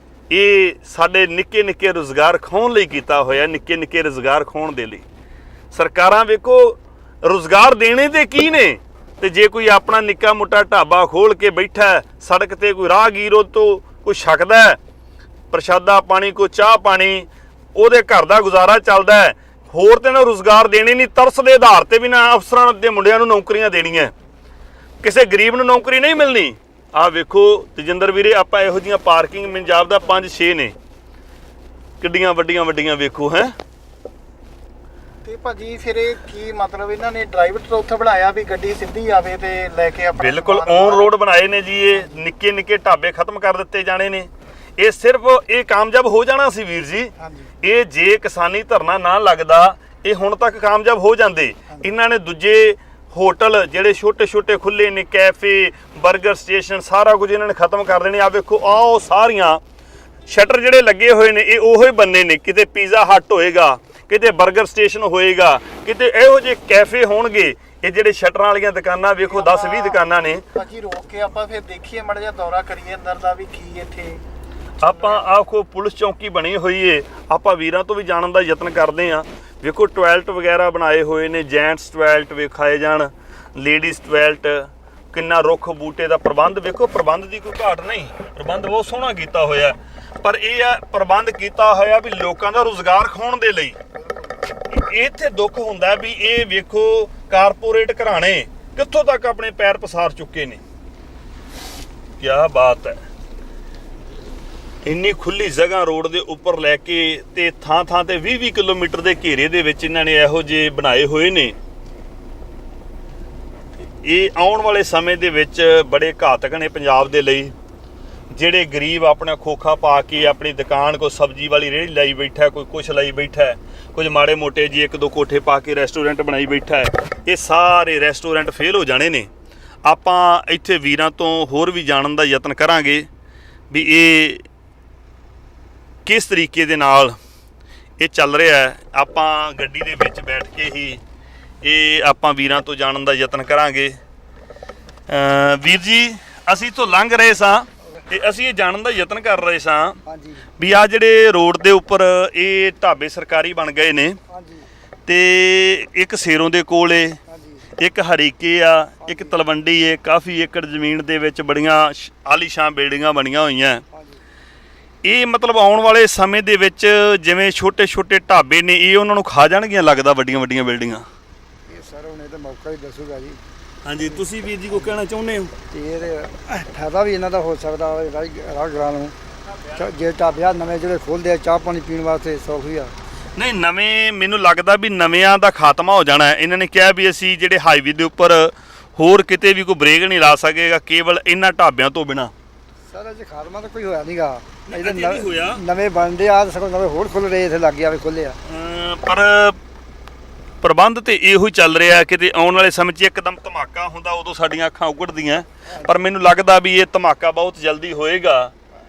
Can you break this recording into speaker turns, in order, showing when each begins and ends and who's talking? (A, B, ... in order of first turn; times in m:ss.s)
0:00.3-0:05.0 A
0:05.7-0:14.8 A
0:15.5-0:24.1 A
0:25.0-0:30.8 A
0:32.0-0:33.5 A
0:35.2-0:41.1 B
0:40.2-0:59.6 A
0:47.2-0:47.5 B
1:00.3-1:10.4 A
1:09.2-1:14.2 B
1:14.8-1:33.8 A
1:14.8-1:15.2 B
1:34.7-1:40.6 A
1:42.2-1:43.0 A
1:44.8-1:51.6 A
1:54.0-1:57.5 A
1:58.3-2:09.3 A
2:09.8-2:13.1 A
2:13.7-2:14.4 A
2:16.0-2:17.2 A
2:18.0-2:21.0 A
2:21.6-2:24.0 A
2:25.1-2:30.0 A
2:30.1-2:30.5 C
2:30.6-2:34.2 A
2:34.3-2:34.7 C
2:35.1-2:37.2 A
2:37.3-2:37.7 C
2:37.8-2:43.8 A
2:39.0-2:39.4 C
2:43.9-2:44.2 C
2:45.0-2:51.1 A
2:51.7-2:53.4 C
2:53.8-2:55.5 A
2:55.7-2:59.1 C
2:59.7-3:02.9 C
3:03.4-3:12.3 A
3:12.9-3:18.4 C
3:14.7-3:15.6 A
3:18.4-3:19.6 A
3:20.6-3:28.5 A